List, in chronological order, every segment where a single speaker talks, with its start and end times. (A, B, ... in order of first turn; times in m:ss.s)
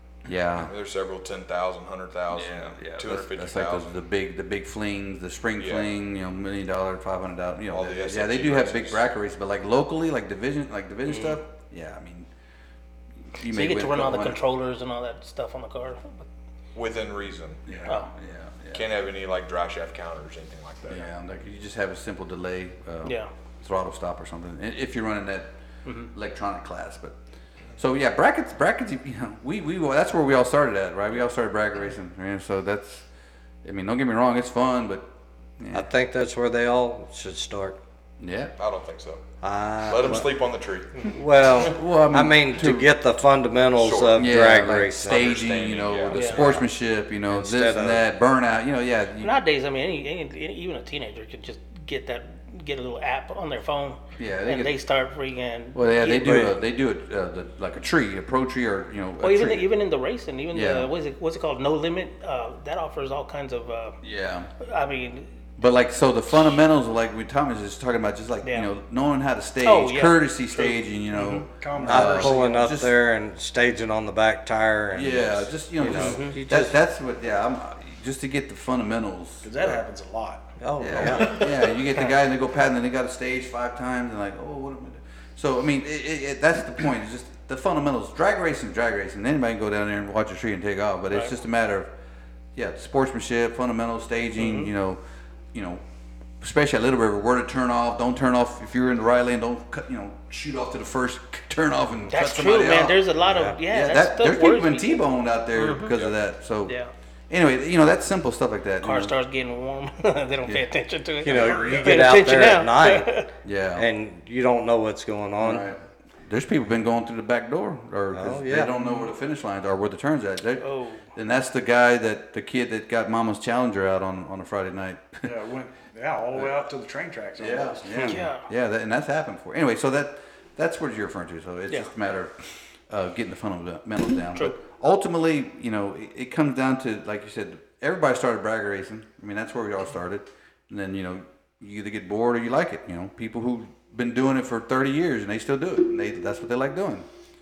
0:00.2-0:00.7 A
0:00.6-0:03.9 B
0:02.3-0:12.3 A
0:05.6-0:05.9 B
0:07.7-0:09.0 B
0:11.1-0:11.4 C
0:13.3-0:14.4 A
0:13.5-0:16.2 C
0:16.7-0:17.7 B
0:17.7-0:18.9 A
0:18.7-0:21.1 B
0:20.9-0:25.5 A
0:25.8-0:26.1 C
0:26.1-0:27.2 A
0:27.8-0:33.0 A
0:33.6-0:35.1 A
0:35.6-0:35.9 A
0:35.7-0:37.8 D
0:38.2-0:38.5 A
0:38.6-0:39.2 B
0:39.4-0:40.3 D
0:39.8-0:41.0 B
0:41.0-0:45.3 D
0:41.5-0:42.9 A
0:43.8-0:44.3 B
0:44.2-0:49.4 A
0:45.0-0:46.6 B
0:46.1-0:46.5 C
0:47.3-0:48.0 D
0:49.2-0:56.6 C
0:54.2-0:54.7 A
0:55.7-0:59.7 A
0:56.2-0:56.5 D
0:59.2-1:04.0 C
1:00.5-1:00.9 A
1:04.0-1:04.5 A
1:04.6-1:05.3 C
1:05.6-1:12.9 A
1:08.4-1:08.7 C
1:09.6-1:11.4 C
1:11.3-1:12.7 E
1:11.8-1:16.3 D
1:14.9-1:19.8 A
1:15.9-1:16.7 C
1:19.4-1:20.5 E
1:20.6-1:21.5 D
1:20.8-1:31.9 A
1:32.5-1:35.0 A
1:34.4-1:34.7 C
1:35.5-1:35.8 A
1:36.4-1:43.0 A
1:42.1-1:45.0 C
1:43.3-1:43.6 D
1:43.7-1:46.7 A
1:45.5-1:46.0 C
1:47.3-1:49.1 A
1:48.8-1:53.3 C
1:51.2-1:53.1 D
1:51.3-1:51.9 B
1:53.4-1:53.9 A
1:53.8-1:55.6 D
1:55.4-2:05.3 A
1:58.1-1:58.7 D
2:00.6-2:01.1 C
2:05.2-2:08.0 E
2:07.4-2:12.3 A
2:08.1-2:08.5 C
2:12.9-2:27.0 A